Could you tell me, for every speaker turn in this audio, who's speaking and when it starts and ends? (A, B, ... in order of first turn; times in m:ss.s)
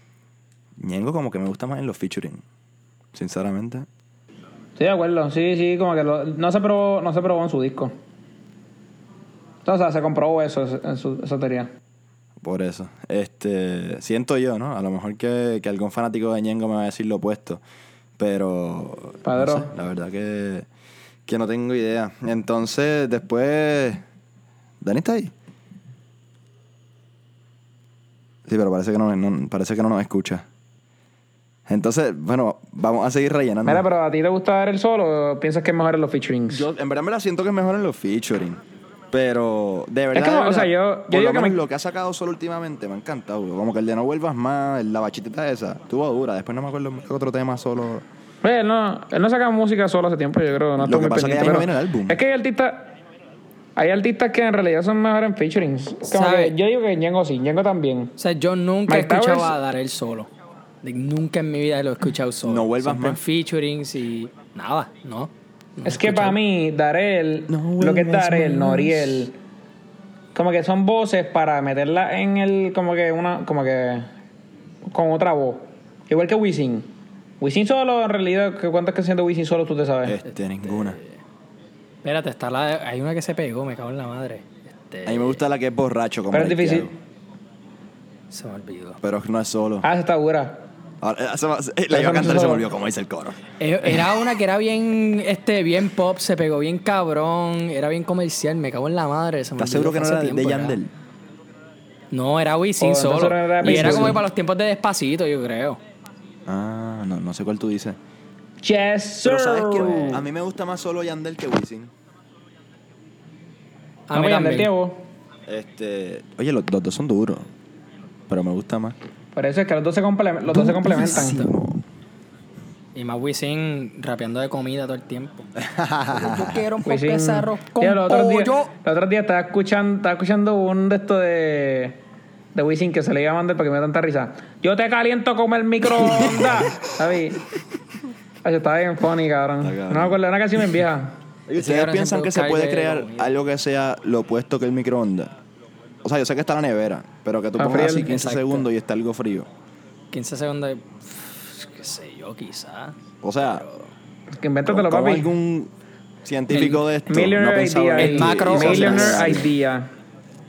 0:00.8-0:02.4 A
0:03.1-0:03.9 A
0:04.8-0:07.9 B
0:09.6-0:11.7 B
0:12.4-0:17.6 A
0:18.2-0:20.7 A
0:19.2-0:19.7 B
0:21.3-0:24.0 A
0:24.8-0:25.3 A
0:28.5-0:30.4 A
0:31.7-0:33.9 A
0:33.6-0:36.7 B
0:36.5-0:48.0 A
0:40.1-0:41.6 B
0:48.4-0:52.9 B
0:50.8-0:52.2 A
0:53.8-0:58.2 B
0:56.1-0:56.5 C
0:58.2-1:00.3 C
0:58.9-0:59.6 B
1:00.8-1:06.4 C
1:02.4-1:03.2 A
1:05.8-1:09.4 B
1:07.5-1:09.3 A
1:10.3-1:14.1 B
1:14.9-1:16.9 B
1:17.4-1:20.2 B
1:20.0-1:21.0 A
1:20.6-1:21.2 C
1:22.0-1:25.4 C
1:25.1-1:26.9 A
1:26.3-1:26.9 B
1:28.3-1:29.0 C
1:29.0-1:29.9 A
1:29.8-1:30.7 B
1:31.0-1:34.1 A
1:31.9-1:32.7 B
1:33.6-1:40.8 C
1:39.6-1:40.9 A
1:42.1-1:45.8 C
1:42.8-1:44.2 B
1:43.6-1:44.1 A
1:46.5-1:48.0 A
1:48.6-1:50.3 B
1:49.2-1:51.9 A
1:54.1-1:54.7 C
1:54.1-1:55.0 B
1:55.5-1:57.5 A
1:58.3-1:59.0 A
1:59.4-2:01.5 B
2:00.5-2:01.8 A
2:00.9-2:01.5 C
2:03.0-2:05.5 C
2:05.6-2:06.6 A
2:06.1-2:08.7 C
2:06.9-2:12.0 B
2:12.6-2:17.4 B
2:18.4-2:21.2 B
2:19.6-2:20.2 A
2:21.5-2:25.3 A
2:21.6-2:23.3 C
2:26.0-2:29.5 A
2:27.6-2:28.2 B
2:27.9-2:28.7 C
2:30.1-2:33.9 C
2:33.2-2:33.6 A
2:34.4-2:35.3 B
2:34.7-2:35.7 A
2:36.2-2:39.5 A
2:36.5-2:36.8 C
2:37.1-2:39.9 B
2:38.0-2:39.4 C